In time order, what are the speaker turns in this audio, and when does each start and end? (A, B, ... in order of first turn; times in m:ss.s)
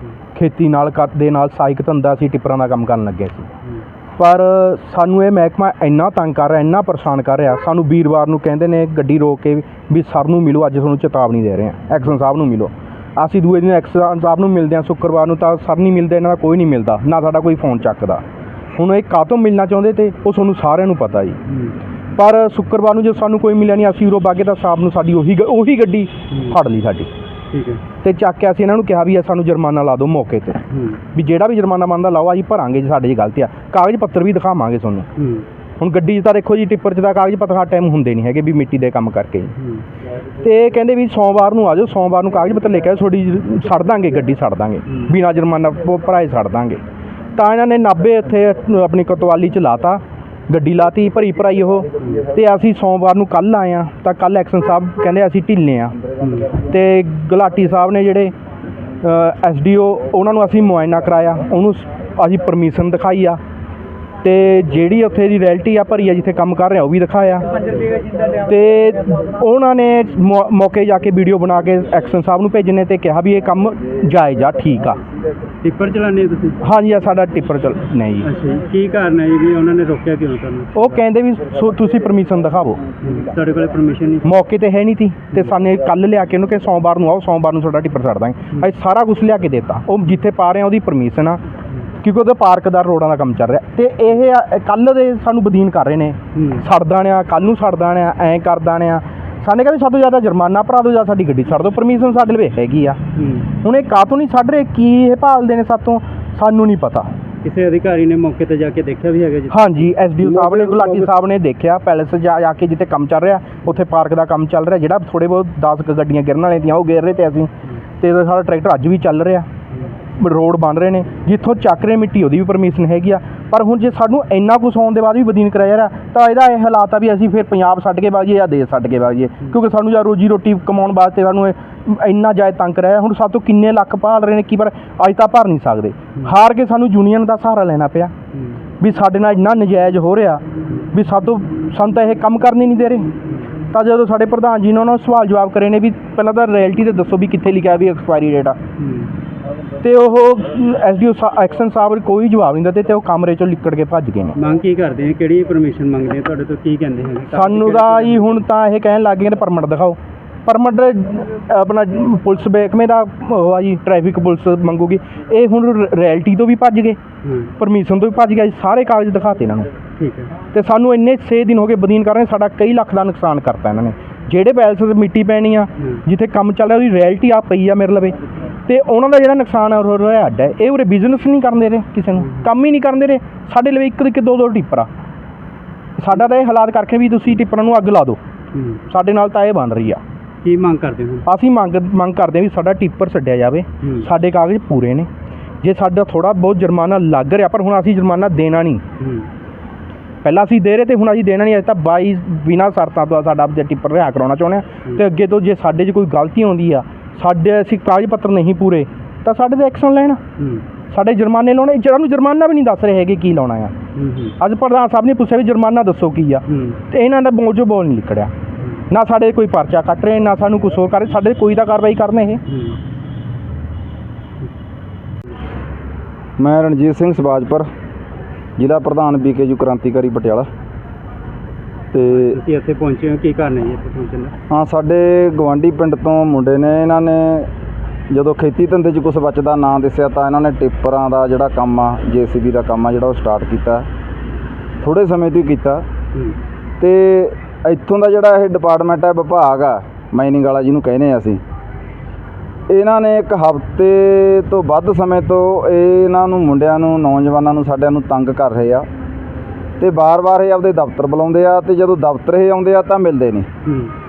0:00.4-0:03.5 A
0:04.2-0:18.2 A
0:18.8-0:21.4 A
0:21.5-0:21.8 B
0:22.2-0:27.1 A
0:27.5-0:27.8 B
0:28.0-0:30.6 A
0:30.7-0:31.0 B
0:31.2-0:35.1 A
0:35.2-0:35.5 B
0:35.8-0:39.5 A
0:39.6-0:39.8 B
0:40.4-0:46.8 A
0:44.9-0:45.1 B
0:47.4-0:56.0 A
0:56.2-0:56.5 B
0:56.6-0:58.3 A
0:59.0-1:03.4 A
1:04.2-1:07.5 A
1:08.4-1:15.0 A
1:15.6-1:16.6 B
1:16.6-1:18.3 A
1:18.2-1:21.0 B
1:20.8-1:22.8 A
1:23.0-1:24.3 B
1:24.2-1:31.4 A
1:32.0-1:43.0 A
1:36.3-1:36.6 B
1:43.2-1:43.5 B
1:43.6-1:47.1 A
1:47.4-1:51.1 B
1:49.5-1:59.5 A
2:00.2-2:18.1 A
2:18.3-2:18.6 B
2:18.8-2:23.1 A
2:23.7-2:28.6 A
2:28.8-2:29.1 B
2:29.8-2:34.4 A
2:34.4-2:38.4 B
2:37.3-2:47.0 A
2:47.2-2:47.5 B
2:47.6-2:49.7 A
2:50.0-2:50.3 B
2:50.5-3:04.9 A
3:06.0-3:08.2 A
3:08.5-3:08.8 B
3:08.9-3:10.0 A
3:10.4-3:11.2 B
3:11.3-3:15.1 A
3:13.8-3:14.1 B
3:15.6-3:18.8 A
3:19.0-3:19.3 B
3:20.2-3:30.2 A
3:30.4-3:30.6 B
3:30.9-3:33.7 A
3:34.0-3:34.4 B
3:34.4-3:38.3 A
3:36.5-3:36.8 B
3:38.9-3:42.4 A
3:42.5-3:42.8 B
3:46.4-3:47.7 C
3:48.6-3:50.5 C
3:51.9-3:52.4 C
3:52.1-3:54.3 B
3:54.5-3:57.5 C
3:58.1-4:03.9 C
4:04.8-4:05.8 C
4:06.8-4:11.4 C
4:12.7-4:18.9 C
4:19.8-4:23.5 C
4:23.6-4:23.9 B